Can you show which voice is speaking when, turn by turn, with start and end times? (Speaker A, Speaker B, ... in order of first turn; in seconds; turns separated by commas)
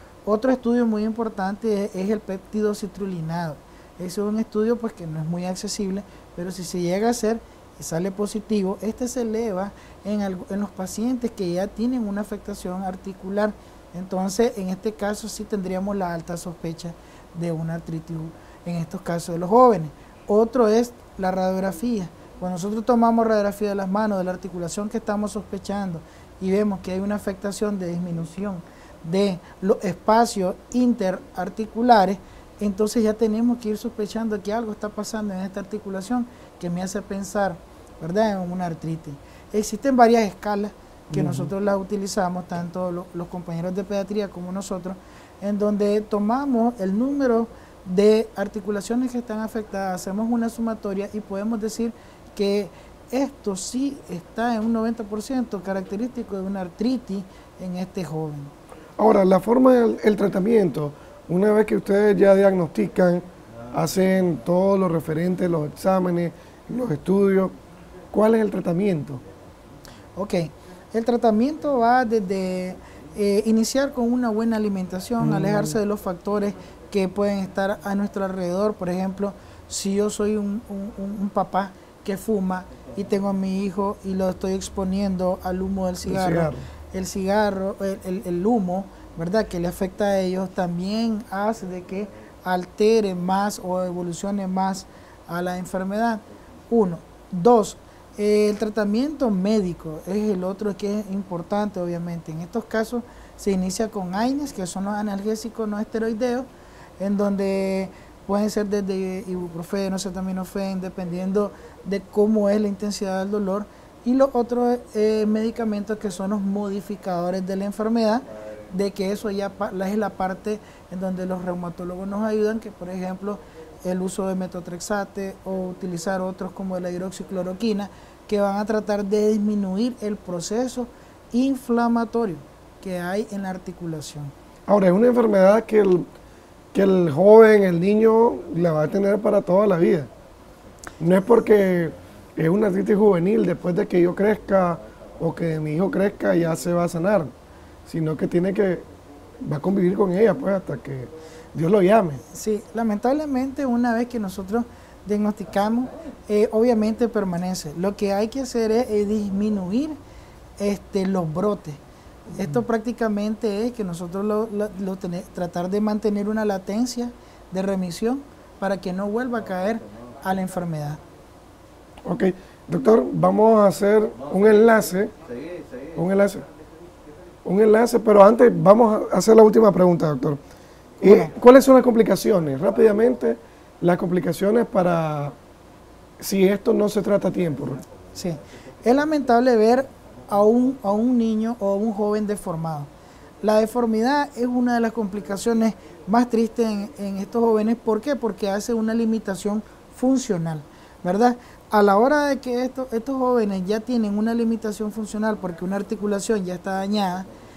Speaker A: 0.2-58.5, Speaker B: 41.1-41.5, Speaker B: 59.0-67.5, Speaker B: 68.1-69.2, Speaker A: 70.2-134.3, Speaker B: 75.2-75.8, Speaker B: 86.0-86.7, Speaker B: 134.7-136.1, Speaker B: 136.7-140.1, Speaker B: 141.0-147.3, Speaker B: 147.8-148.9, Speaker B: 149.4-152.2, Speaker A: 152.3-160.0, Speaker A: 160.6-161.8, Speaker A: 162.3-171.0, Speaker B: 162.3-162.6, Speaker B: 172.0-175.1, Speaker B: 175.8-176.4, Speaker B: 177.4-180.4, Speaker B: 181.0-185.3, Speaker A: 181.0-181.3, Speaker B: 186.2-187.8, Speaker A: 188.1-192.9, Speaker A: 193.4-207.3